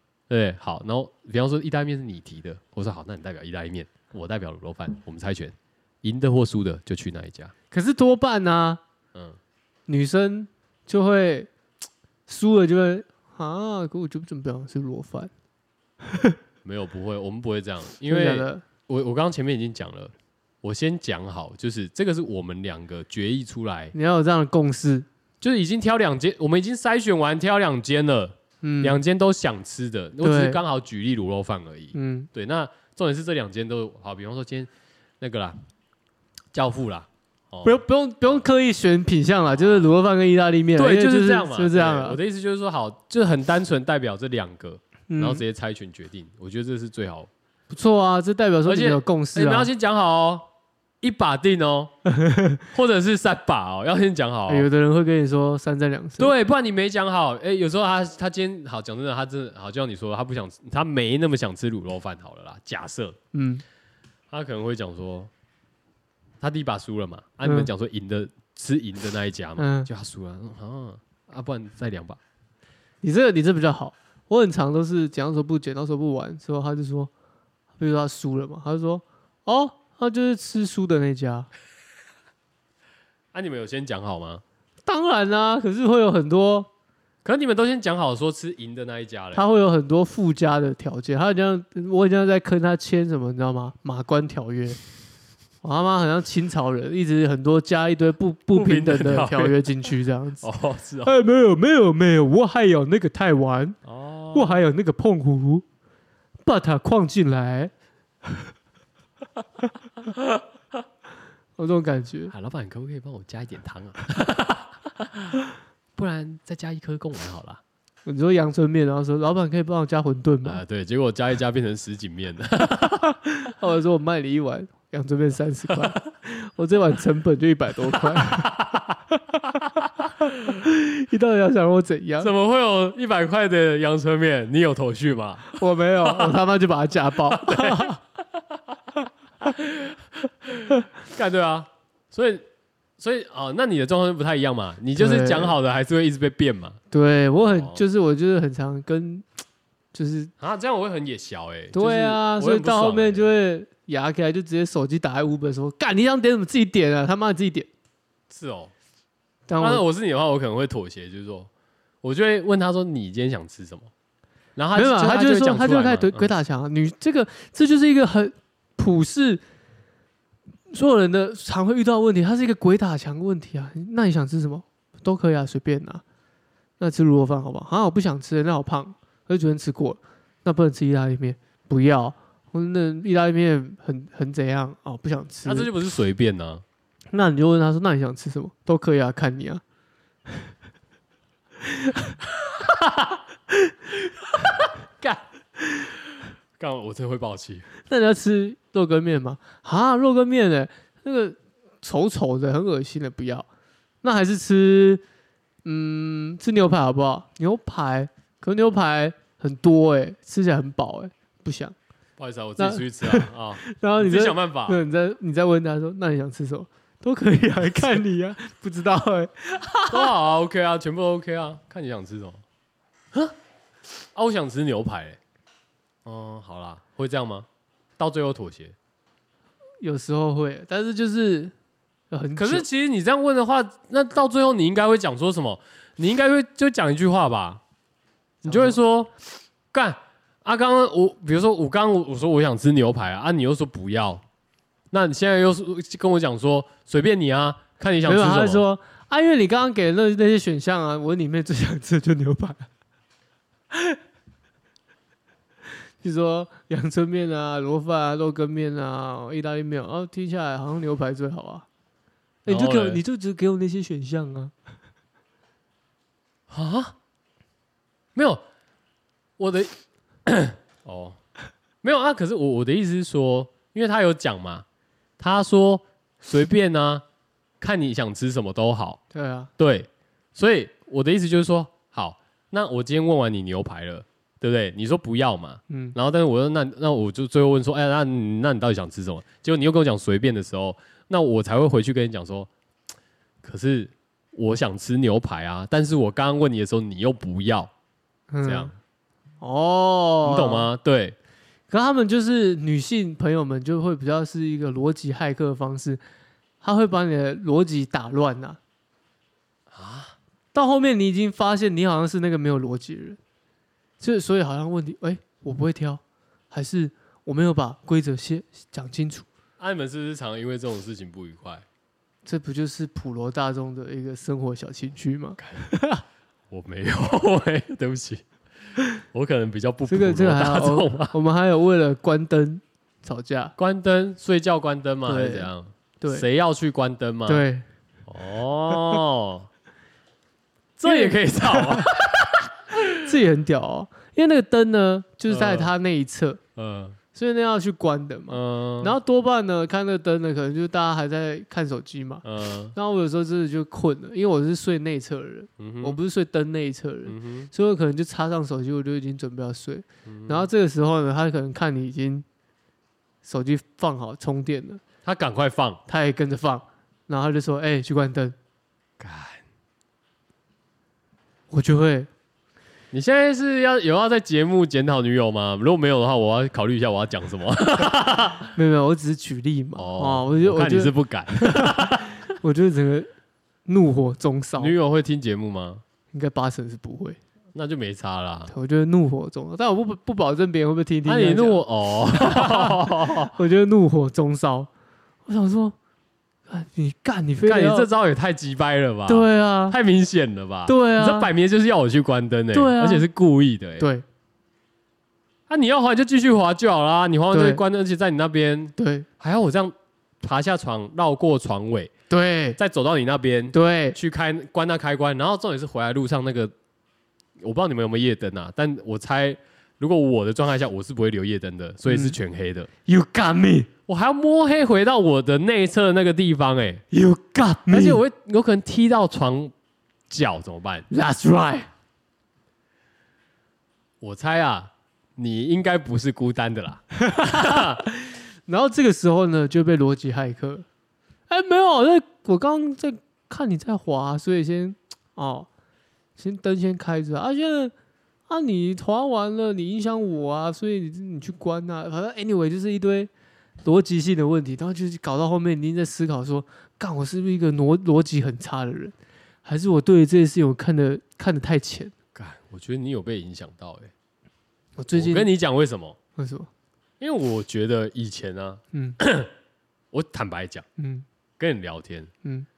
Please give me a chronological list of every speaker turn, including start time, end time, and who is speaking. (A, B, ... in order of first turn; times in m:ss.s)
0:00.3-0:07.5 A
0:07.7-0:08.8 B
0:09.1-0:09.4 A
0:09.9-0:11.5 B
0:12.3-0:15.3 B
0:16.6-0:23.9 A
0:18.0-0:18.6 B
0:23.9-0:25.0 B
0:25.4-0:35.6 A
0:28.6-0:29.0 B
0:30.2-0:30.6 B
0:31.9-0:32.3 B
0:36.5-0:38.4 A
0:37.6-0:42.2 B
0:39.5-0:39.9 A
0:40.8-0:47.3 A
0:45.1-0:45.4 B
0:47.7-0:49.7 B
0:48.6-0:50.5 A
0:51.0-0:51.9 A
0:52.1-0:52.6 B
0:52.7-0:54.7 A
0:54.5-0:56.3 B
0:56.2-1:03.2 A
1:03.3-1:03.6 B
1:04.3-1:05.3 A
1:06.4-1:12.2 A
1:07.4-1:07.7 B
1:09.6-1:09.9 B
1:13.0-1:17.1 B
1:17.8-1:21.5 B
1:23.3-1:24.4 A
1:24.8-1:26.7 B
1:27.2-1:29.4 A
1:29.3-1:34.8 B
1:35.6-1:40.5 B
1:38.5-1:39.6 A
1:40.4-1:41.1 A
1:41.0-1:43.8 B
1:43.8-1:44.6 A
1:44.3-1:45.6 B
1:46.4-1:47.7 B
1:51.6-1:52.3 B
1:52.3-1:55.4 A
1:56.0-1:57.6 A
1:58.0-2:00.6 B
2:00.4-2:03.1 A
2:03.3-2:08.5 B
2:08.1-2:09.0 A
2:09.6-2:10.6 A
2:10.5-2:12.3 B
2:12.2-2:16.4 A
2:15.5-2:18.0 B
2:17.3-2:18.8 A
2:19.4-2:22.4 A
2:23.0-2:26.8 A
2:24.9-2:25.6 B
2:26.9-2:29.2 B
2:27.4-2:27.8 A
2:29.9-2:30.3 B
2:30.4-2:33.3 A
2:31.7-2:37.7 B
2:38.3-2:38.7 A
2:39.5-2:39.8 B
2:39.6-2:41.5 A
2:42.0-2:43.9 A
2:44.6-2:46.3 A
2:44.7-2:49.4 B
2:50.7-2:56.0 B
2:56.8-3:05.7 B
3:05.4-3:06.6 A
3:07.1-3:09.6 B
3:11.7-3:12.1 B
3:12.3-3:13.2 A
3:14.4-3:15.2 A
3:16.6-3:17.7 A
3:17.8-3:23.5 B
3:24.0-3:25.0 B
3:25.6-3:31.7 B
3:32.2-3:34.8 A
3:32.6-3:40.1 B
3:39.9-3:42.4 A
3:44.0-3:45.2 A
3:46.0-3:47.5 A
3:48.0-3:48.7 A
3:49.8-3:51.5 B
3:52.1-3:52.6 B
3:52.4-3:57.6 A
3:58.4-3:59.1 A
3:58.4-3:58.8 B
3:59.7-4:04.2 A
4:04.9-4:08.6 A
4:08.0-4:12.7 B
4:13.7-4:14.0 B
4:16.0-4:21.6 B
4:22.4-4:24.5 B
4:22.4-4:23.0 A
4:26.5-4:26.9 A
4:28.1-4:28.4 A
4:29.4-4:29.7 A
4:30.2-4:31.2 A
4:31.8-4:34.6 A
4:35.2-4:37.0 A
4:37.6-4:39.0 A
4:39.1-4:39.5 B
4:39.6-4:52.5 A
4:45.7-4:46.0 B
4:53.4-4:57.7 A
4:58.3-4:58.7 B
4:58.4-4:58.7 A
4:59.4-5:00.7 B
5:00.2-5:01.2 A
5:01.7-5:06.0 B
5:06.6-5:08.6 B
5:09.7-5:10.2 A
5:10.5-5:13.2 B
5:14.0-5:19.2 B
5:19.6-5:21.6 A
5:22.2-5:26.0 B
5:25.4-5:25.6 A
5:26.5-5:28.2 A
5:29.1-5:31.2 A
5:29.9-5:33.5 B
5:33.6-5:37.4 A
5:35.0-5:36.2 B
5:37.3-5:37.6 B
5:38.1-5:39.5 A
5:40.8-5:42.8 A
5:40.8-5:41.9 B
5:42.9-5:46.4 B
5:45.3-5:45.7 A
5:46.6-5:47.0 A
5:47.1-6:02.2 B
5:48.3-5:49.0 A
5:52.2-5:52.8 A
5:55.6-5:56.0 A
5:57.0-5:57.5 A
6:00.0-6:00.5 A
6:03.2-6:04.8 B
6:05.0-6:05.8 A
6:05.9-6:08.4 B
6:09.0-6:09.4 A
6:11.5-6:12.1 B
6:12.9-6:18.5 A
6:18.5-6:23.1 B
6:19.8-6:22.1 A
6:23.6-6:24.7 B
6:24.6-6:25.8 A
6:26.1-6:27.2 B
6:27.5-6:28.5 A
6:28.5-6:34.7 B
6:31.0-6:33.3 A
6:35.2-6:35.7 B
6:36.5-6:37.9 B
6:37.4-6:43.9 A
6:39.1-6:39.8 B
6:40.6-6:41.3 B
6:42.5-6:43.1 B
6:43.8-6:44.0 B
6:45.5-6:51.9 A
6:47.3-6:47.6 B
6:48.8-6:49.0 B
6:52.1-6:52.6 B
6:52.6-6:56.5 A
6:53.5-6:54.0 B
6:57.4-7:02.7 A
7:01.9-7:02.2 B
7:02.8-7:03.7 B
7:03.9-7:06.8 A
7:06.9-7:08.0 B
7:07.7-7:09.5 A
7:10.1-7:10.9 A
7:10.9-7:11.7 B
7:14.0-7:17.8 A
7:17.0-7:20.6 B
7:21.3-7:25.5 B
7:26.2-7:27.7 B
7:28.3-7:33.1 B
7:33.6-7:41.9 B
7:42.1-7:43.9 A
7:44.8-7:45.3 B
7:44.9-7:46.0 A
7:46.2-7:46.5 B
7:47.0-7:49.3 A
7:48.7-7:49.0 B
7:49.9-7:50.6 A
7:50.8-7:51.0 B
7:51.4-7:52.1 A